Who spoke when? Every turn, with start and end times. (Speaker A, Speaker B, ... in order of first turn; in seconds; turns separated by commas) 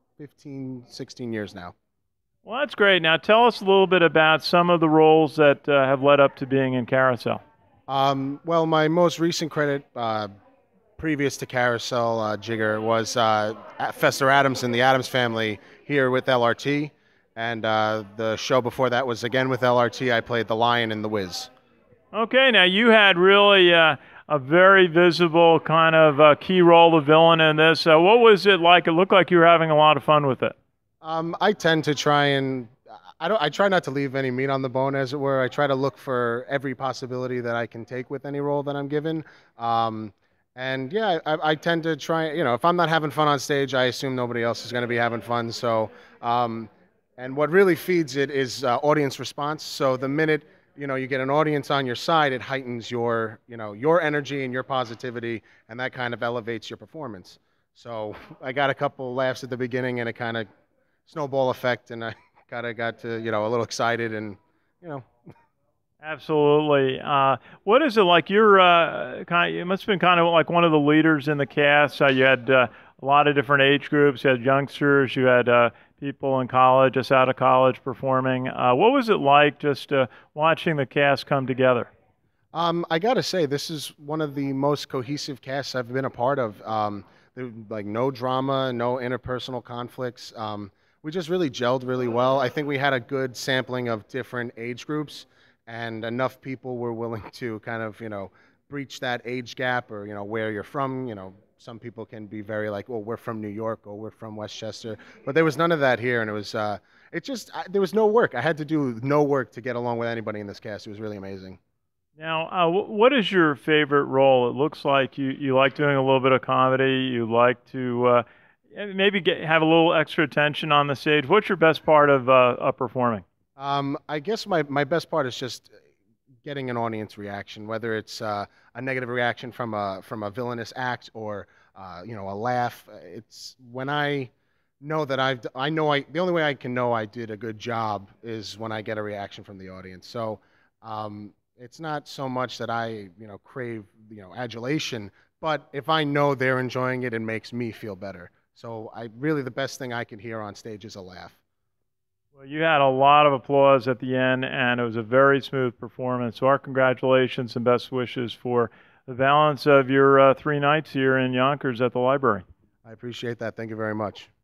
Speaker A: 0.2-1.7, Speaker B: 2.4-7.4, Speaker A: 7.9-10.3, Speaker A: 11.0-21.5, Speaker B: 22.1-30.5, Speaker A: 31.0-60.5, Speaker A: 61.1-65.1, Speaker B: 66.0-81.9, Speaker A: 82.5-111.6, Speaker B: 112.2-123.2, Speaker A: 123.6-125.7, Speaker A: 126.4-151.4, Speaker B: 152.3-162.4, Speaker A: 162.8-164.3